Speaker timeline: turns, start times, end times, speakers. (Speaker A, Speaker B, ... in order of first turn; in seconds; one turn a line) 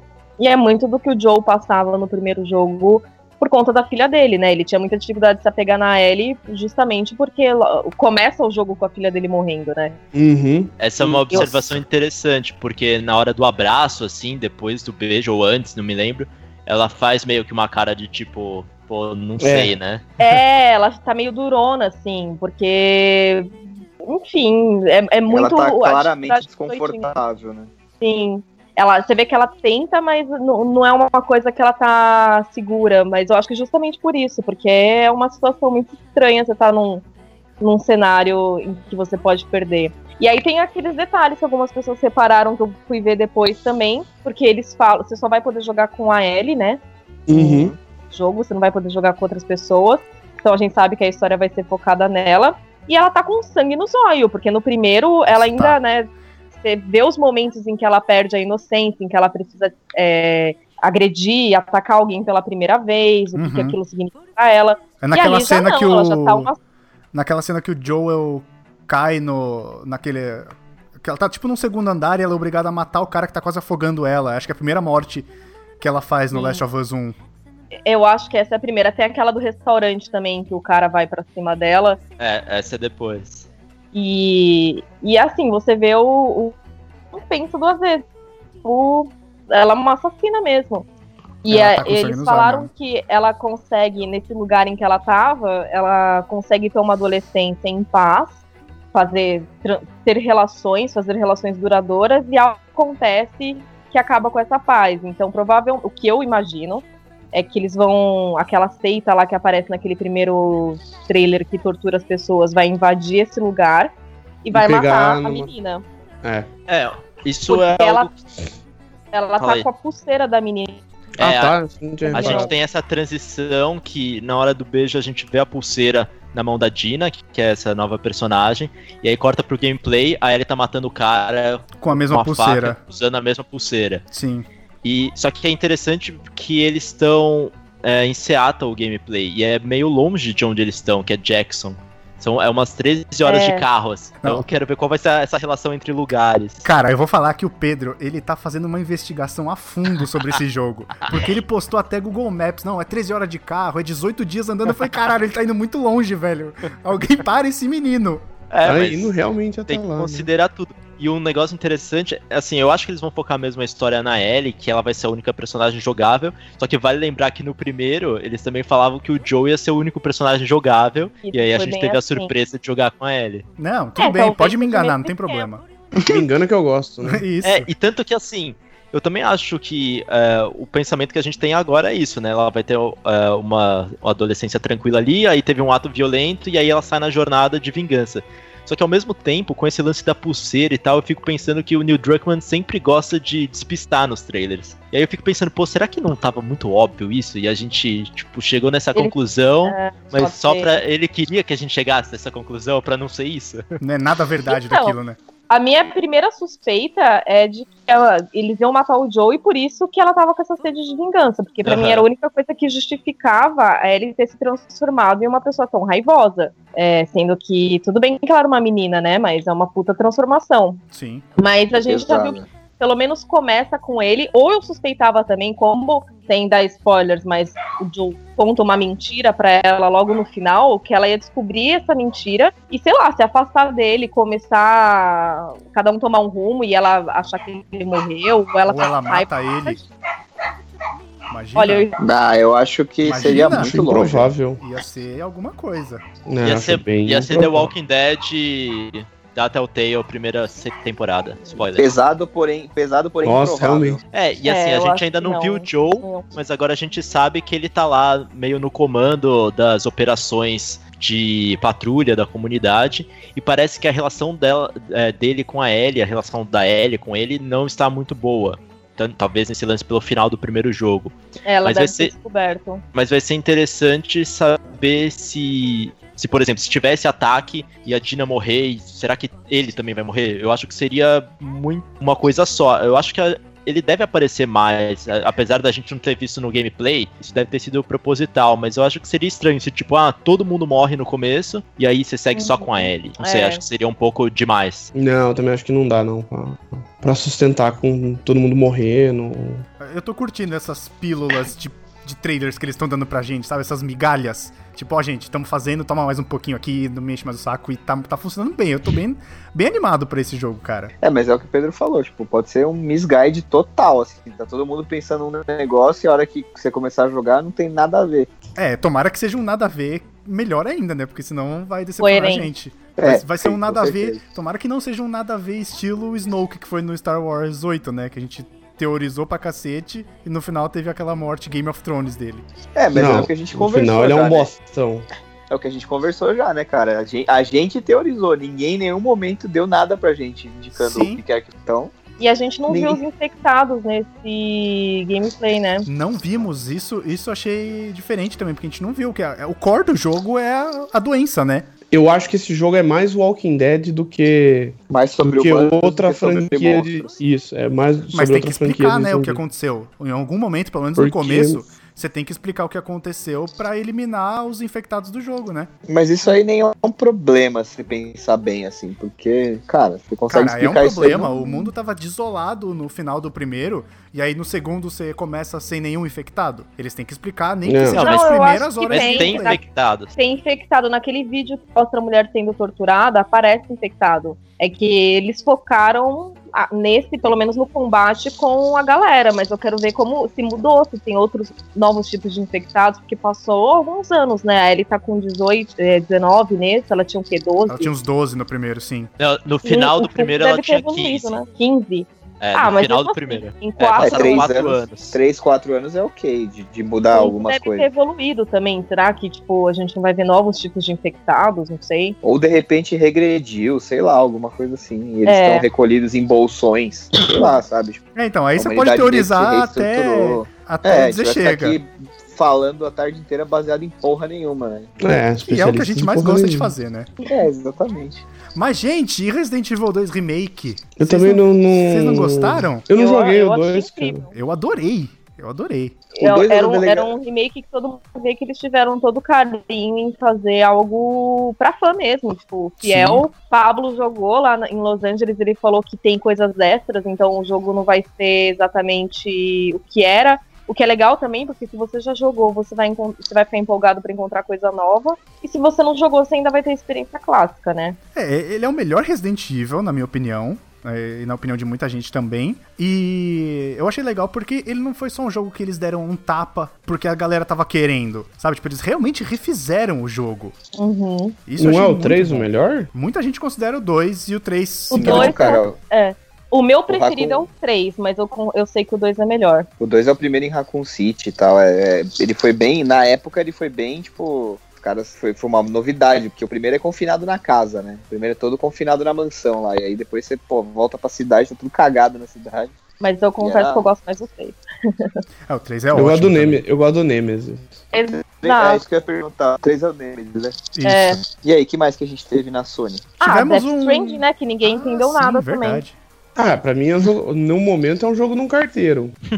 Speaker A: 0.4-10.0
Speaker B: 10.1-11.5
Speaker C: 10.8-20.1
Speaker B: 19.4-19.8
Speaker A: 20.2-23.5
Speaker A: 24.0-27.1
Speaker D: 25.3-27.7
Speaker A: 28.0-37.0
Speaker A: 37.6-46.8
Speaker B: 47.3-47.8
Speaker A: 47.3-66.6
Speaker E: 55.3-55.8
Speaker E: 63.4-63.8
Speaker E: 65.0-66.5
Speaker E: 67.1-77.2
Speaker A: 76.3-76.6
Speaker A: 77.8-82.0
Speaker C: 82.2-83.5
Speaker A: 83.9-86.6
Speaker A: 87.1-88.0
Speaker A: 88.6-90.9
Speaker A: 91.4-98.4
Speaker E: 91.5-92.7
Speaker A: 98.9-113.9
Speaker A: 114.4-115.8
Speaker B: 114.5-115.5
Speaker B: 116.2-116.5
Speaker C: 116.7-118.2
Speaker A: 117.5-118.1
Speaker A: 119.1-120.8
Speaker C: 119.4-119.7
Speaker C: 121.2-121.6
Speaker B: 121.2-122.5
Speaker A: 122.1-122.5
Speaker C: 122.1-134.0
Speaker E: 131.8-132.8
Speaker E: 134.1-134.5
Speaker C: 134.8-146.7
Speaker A: 143.2-143.7
Speaker E: 146.6-158.2
Speaker C: 158.5-159.2
Speaker B: 158.6-160.3
Speaker C: 159.7-173.5
Speaker A: 171.2-172.3
Speaker E: 173.6-176.2
Speaker A: 174.0-175.5
Speaker B: 176.0-177.2
Speaker E: 177.1-177.7
Speaker C: 177.4-203.7
Speaker A: 198.9-200.8
Speaker E: 203.8-205.2
Speaker A: 204.5-205.0
Speaker A: 205.5-220.8
Speaker C: 211.7-212.1
Speaker E: 220.9-221.2
Speaker A: 221.4-239.8
Speaker D: 221.8-222.5
Speaker E: 238.7-239.8
Speaker E: 241.3-241.9
Speaker A: 241.6-242.0
Speaker D: 242.0-244.3
Speaker E: 243.0-243.8
Speaker B: 243.2-244.6
Speaker E: 244.6-246.1
Speaker B: 246.3-247.7
Speaker C: 246.4-251.9
Speaker D: 251.8-254.0
Speaker B: 253.2-254.0
Speaker C: 254.1-272.1
Speaker A: 254.4-256.3
Speaker A: 271.4-272.8
Speaker C: 272.9-294.9
Speaker A: 292.3-293.6
Speaker B: 294.9-299.6
Speaker E: 299.8-310.9
Speaker D: 311.0-318.3
Speaker E: 318.6-332.5
Speaker A: 322.0-322.5
Speaker D: 323.0-324.2
Speaker D: 332.8-334.5
Speaker B: 332.9-335.1
Speaker D: 335.5-341.9
Speaker E: 340.8-341.2
Speaker A: 342.2-345.9
Speaker D: 342.7-343.0
Speaker E: 345.9-351.7
Speaker B: 351.9-359.4
Speaker D: 354.9-357.2
Speaker E: 358.1-365.7
Speaker B: 361.0-361.7
Speaker D: 365.9-371.3
Speaker E: 370.3-379.6
Speaker A: 371.3-371.7
Speaker B: 377.6-378.0
Speaker C: 377.9-378.4
Speaker A: 378.0-379.6
Speaker C: 378.9-380.1
Speaker A: 380.2-397.9
Speaker E: 397.7-399.1
Speaker C: 399.2-401.4
Speaker A: 399.6-404.5
Speaker C: 402.4-405.2
Speaker D: 404.0-407.9
Speaker A: 407.1-412.2
Speaker D: 412.2-418.0
Speaker A: 415.3-415.7
Speaker E: 418.1-421.8
Speaker D: 418.6-424.9
Speaker B: 425.0-426.7
Speaker E: 425.4-427.1
Speaker D: 427.3-428.2
Speaker E: 428.6-432.9
Speaker B: 431.0-434.2
Speaker A: 432.9-434.3
Speaker E: 434.3-436.0
Speaker D: 436.2-437.1
Speaker A: 436.2-458.0
Speaker E: 442.8-443.2
Speaker E: 458.1-470.6
Speaker A: 470.8-471.4
Speaker E: 471.5-475.6
Speaker B: 471.6-472.9
Speaker A: 474.9-479.7
Speaker D: 474.9-475.8
Speaker D: 476.9-477.5
Speaker D: 479.8-492.7
Speaker A: 493.0-495.2
Speaker D: 493.4-493.9
Speaker E: 495.5-496.6
Speaker B: 495.9-497.9
Speaker A: 497.9-498.8
Speaker D: 498.2-500.6
Speaker E: 500.8-501.2
Speaker A: 500.9-501.2
Speaker D: 501.4-503.1
Speaker A: 503.2-505.8
Speaker E: 503.2-506.0
Speaker B: 506.4-509.2